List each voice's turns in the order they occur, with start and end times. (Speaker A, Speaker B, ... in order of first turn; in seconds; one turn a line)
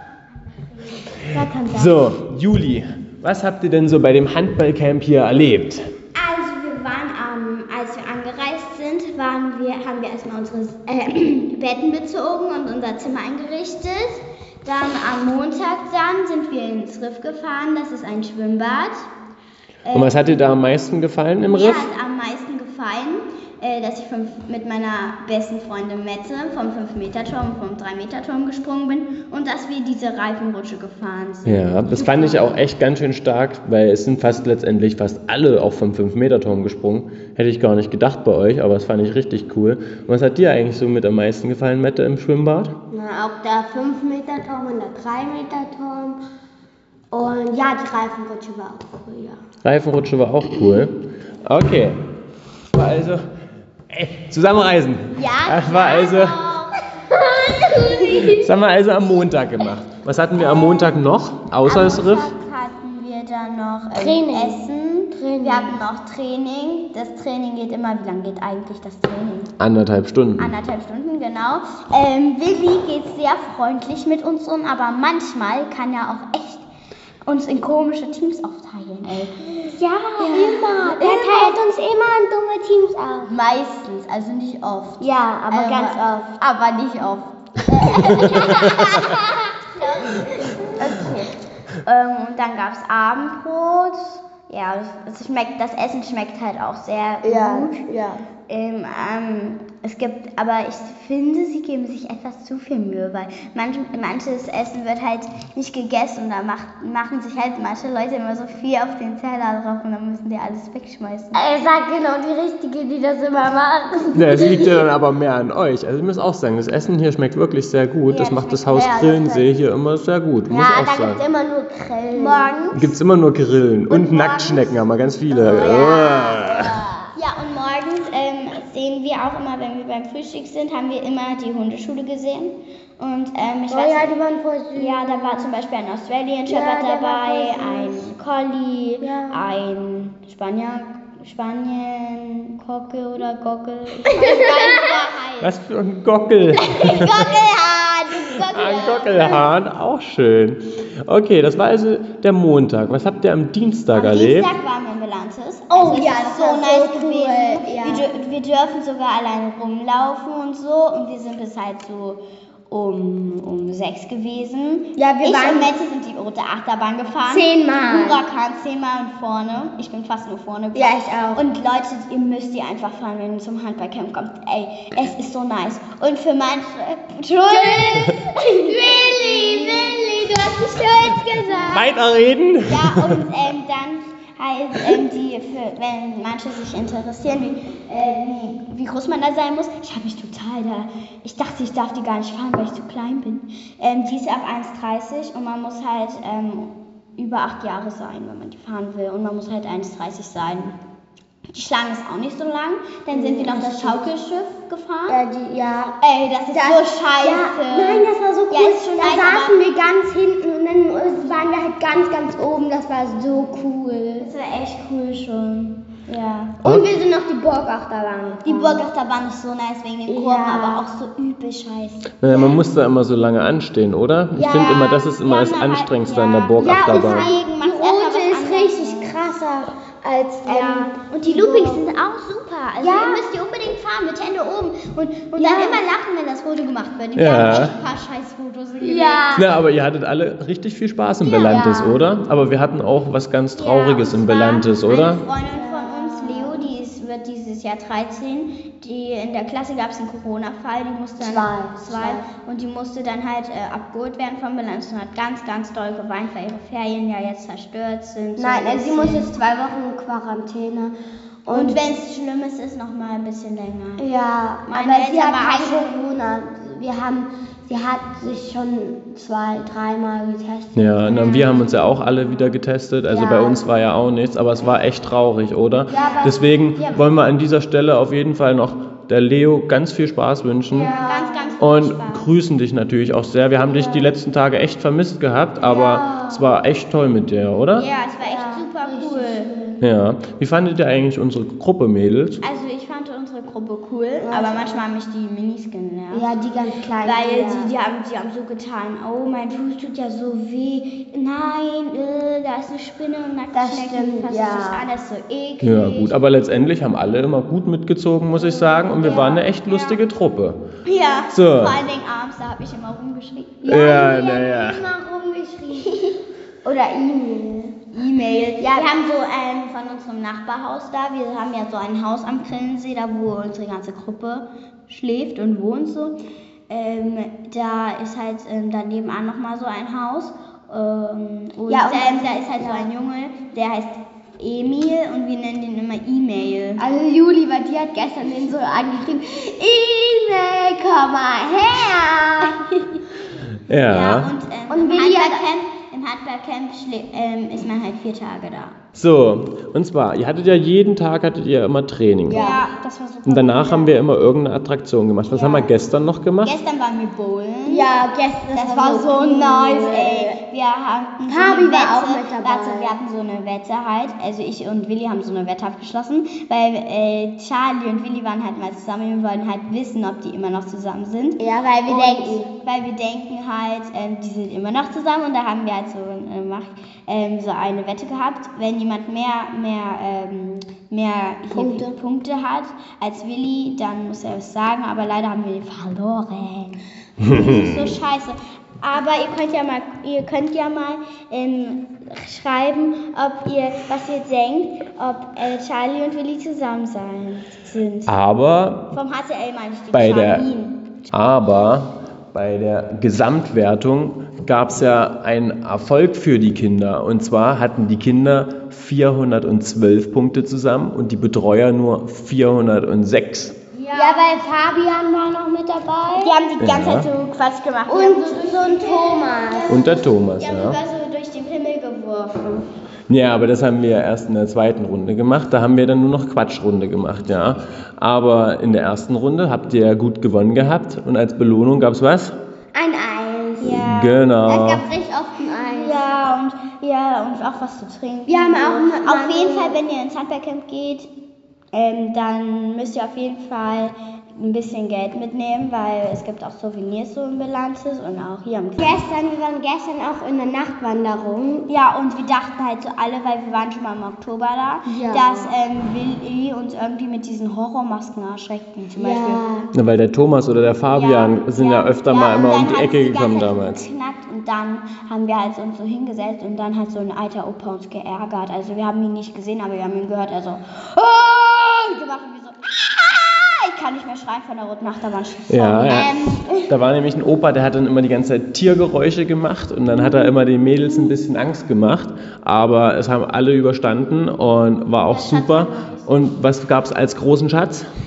Speaker A: 1.2-2.1
Speaker B: 1.7-5.9
Speaker C: 6.1-19.1
Speaker C: 19.9-20.5
Speaker B: 19.9-21.9
Speaker C: 21.4-32.4
Speaker B: 31.4-42.7
Speaker A: 42.9-46.2
Speaker A: 47.1-49.4
Speaker B: 49.6-52.0
Speaker B: 52.7-53.3
Speaker B: 53.9-56.4
Speaker C: 55.2-56.8
Speaker A: 57.1-58.5
Speaker C: 57.7-58.2
Speaker B: 58.3-62.3
Speaker C: 61.6-69.5
Speaker A: 63.9-64.6
Speaker A: 65.2-65.8
Speaker B: 69.6-70.5
Speaker C: 70.4-76.7
Speaker C: 77.2-79.5
Speaker A: 79.6-83.3
Speaker C: 80.2-81.6
Speaker C: 83.3-97.8
Speaker A: 85.0-86.3
Speaker A: 87.9-89.4
Speaker A: 90.2-90.5
Speaker A: 97.2-98.2
Speaker C: 98.5-111.4
Speaker A: 111.3-114.8
Speaker B: 114.1-121.2
Speaker C: 118.1-119.2
Speaker A: 118.7-119.5
Speaker A: 120.5-122.6
Speaker C: 122.1-122.9
Speaker B: 122.7-126.8
Speaker A: 123.9-127.1
Speaker C: 127.2-134.1
Speaker A: 133.7-135.5
Speaker C: 134.8-145.6
Speaker A: 136.5-138.0
Speaker A: 139.0-139.5
Speaker A: 144.2-144.8
Speaker B: 145.4-147.3
Speaker C: 146.6-149.4
Speaker B: 148.5-154.5
Speaker C: 153.9-180.0
Speaker A: 155.7-158.1
Speaker A: 165.0-165.8
Speaker A: 167.3-168.2
Speaker A: 170.7-171.4
Speaker A: 177.4-181.9
Speaker B: 181.6-183.2
Speaker C: 182.7-200.8
Speaker C: 201.5-205.2
Speaker A: 203.1-204.1
Speaker A: 205.1-206.0
Speaker C: 206.0-209.6
Speaker A: 206.5-214.3
Speaker C: 214.2-216.6
Speaker B: 216.6-216.9
Speaker A: 216.6-218.9
Speaker C: 218.4-222.1
Speaker A: 220.1-220.9
Speaker B: 222.2-227.3
Speaker A: 222.3-222.6
Speaker A: 224.3-225.1
Speaker C: 225.2-229.2
Speaker A: 226.6-231.9
Speaker C: 230.5-239.4
Speaker A: 232.8-233.2
Speaker A: 235.3-235.8
Speaker B: 237.2-237.7
Speaker A: 238.8-239.5
Speaker B: 239.3-245.2
Speaker C: 241.2-241.6
Speaker A: 241.4-242.0
Speaker C: 243.6-259.3
Speaker A: 245.5-246.7
Speaker A: 251.2-252.3
Speaker A: 258.4-260.9
Speaker A: 261.4-261.8
Speaker C: 261.5-264.0
Speaker A: 264.0-271.4
Speaker C: 264.7-266.0
Speaker B: 270.7-280.9
Speaker C: 271.1-271.9
Speaker A: 273.1-273.6
Speaker A: 275.9-277.1
Speaker C: 275.9-276.4
Speaker A: 280.7-281.6
Speaker C: 280.8-282.3
Speaker B: 281.6-287.9
Speaker A: 283.6-284.2
Speaker A: 285.6-286.6
Speaker C: 287.8-289.5
Speaker A: 288.2-289.9
Speaker B: 289.8-292.4
Speaker C: 292.4-296.3
Speaker A: 294.2-294.8
Speaker A: 296.1-297.7
Speaker C: 297.0-306.2
Speaker A: 303.5-304.9
Speaker B: 305.6-310.6
Speaker C: 308.4-310.0
Speaker A: 309.0-309.4
Speaker C: 310.9-313.9
Speaker B: 311.3-311.8
Speaker A: 313.6-317.8
Speaker B: 313.7-314.8
Speaker C: 317.9-326.2
Speaker A: 318.6-318.9
Speaker C: 326.7-336.8
Speaker A: 331.7-332.9
Speaker A: 336.8-342.6
Speaker B: 343.7-344.3
Speaker C: 343.9-348.8
Speaker A: 344.7-345.5
Speaker B: 348.9-352.5
Speaker A: 352.3-352.6
Speaker C: 352.3-353.9
Speaker B: 353.3-356.6
Speaker C: 355.3-355.7
Speaker C: 356.4-357.9
Speaker A: 357.7-360.4
Speaker C: 358.5-398.1
Speaker A: 361.3-363.0
Speaker A: 371.4-372.5
Speaker A: 381.5-381.9
Speaker B: 387.2-387.9
Speaker B: 398.1-398.9
Speaker C: 398.9-400.8
Speaker B: 399.9-400.5
Speaker B: 401.1-413.6
Speaker C: 413.7-414.3
Speaker A: 413.9-416.3
Speaker C: 416.2-422.6
Speaker B: 416.6-417.1
Speaker A: 417.9-419.9
Speaker B: 419.7-420.8
Speaker B: 423.1-432.4
Speaker A: 432.7-433.8
Speaker C: 433.6-434.2
Speaker B: 433.7-434.9
Speaker A: 434.4-436.1
Speaker C: 435.6-441.1
Speaker A: 438.3-439.8
Speaker C: 441.7-449.0
Speaker A: 448.8-451.7
Speaker C: 451.7-459.4
Speaker A: 454.9-455.5
Speaker A: 459.0-459.7
Speaker B: 459.7-463.8
Speaker C: 460.9-476.7
Speaker B: 475.5-487.9
Speaker C: 485.0-486.1